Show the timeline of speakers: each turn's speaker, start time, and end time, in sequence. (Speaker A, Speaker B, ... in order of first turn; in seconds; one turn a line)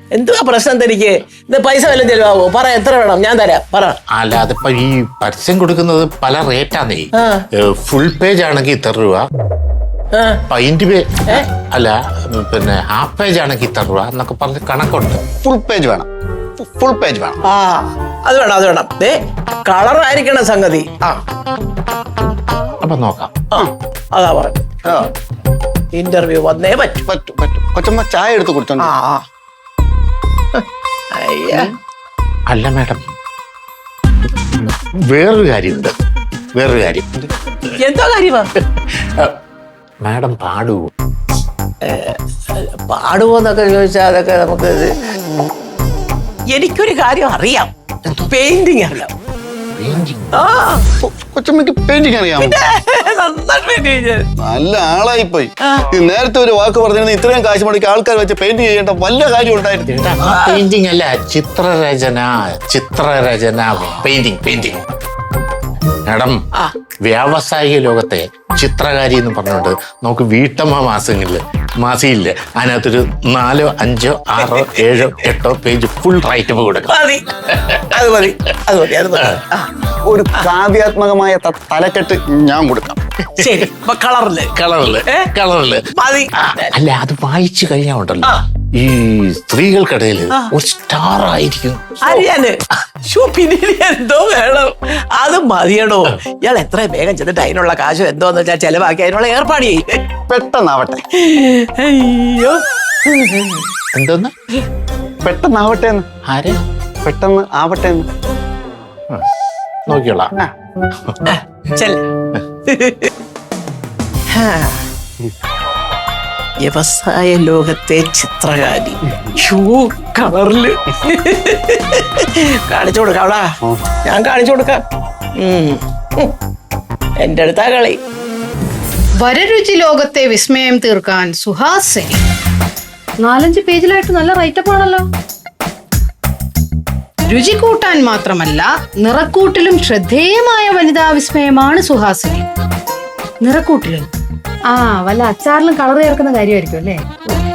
Speaker A: 0.1-4.0
Speaker B: 4.2-9.2
Speaker A: 7.2-7.4
Speaker A: 10.2-10.4
Speaker B: 10.5-15.2
Speaker C: 15.4-16.1
Speaker C: 16.6-17.4
Speaker A: 17.5-21.2
Speaker B: 22.8-23.4
Speaker A: 23.5-25.0
Speaker A: 25.9-27.1
Speaker C: 27.1-28.9
Speaker A: 28.8-29.2
Speaker A: 30.6-31.7
Speaker B: 32.5-33.1
Speaker B: 34.6-35.9
Speaker B: 36.6-37.1
Speaker A: 37.7-38.5
Speaker B: 38.6-39.4
Speaker B: 40.0-40.9
Speaker A: 41.9-44.9
Speaker A: 46.5-49.1
Speaker B: 49.7-50.4
Speaker A: 50.3-50.8
Speaker C: 51.0-52.6
Speaker A: 52.4-54.3
Speaker C: 54.4-60.0
Speaker B: 59.9-64.8
Speaker A: 60.2-60.6
Speaker B: 66.1-66.4
Speaker B: 67.0-77.0
Speaker A: 74.4-74.7
Speaker A: 76.9-77.2
Speaker B: 77.5-77.8
Speaker C: 77.9-78.4
Speaker A: 77.9-79.7
Speaker C: 80.0-83.0
Speaker A: 83.4-84.5
Speaker B: 84.5-85.8
Speaker A: 86.0-86.7
Speaker B: 86.4-92.2
Speaker A: 92.0-99.8
Speaker C: 100.3-101.0
Speaker A: 101.2-103.7
Speaker B: 103.9-104.3
Speaker C: 105.2-106.1
Speaker B: 106.3-106.6
Speaker C: 107.0-108.1
Speaker B: 109.9-110.3
Speaker A: 111.3-112.0
Speaker A: 112.7-113.1
Speaker A: 114.3-114.8
Speaker A: 116.6-123.5
Speaker A: 124.0-124.8
Speaker A: 125.4-126.3
Speaker A: 127.2-128.0
Speaker D: 129.2-132.2
Speaker D: 133.2-135.1
Speaker D: 137.2-142.4
Speaker D: 143.4-144.1
Speaker D: 144.7-147.0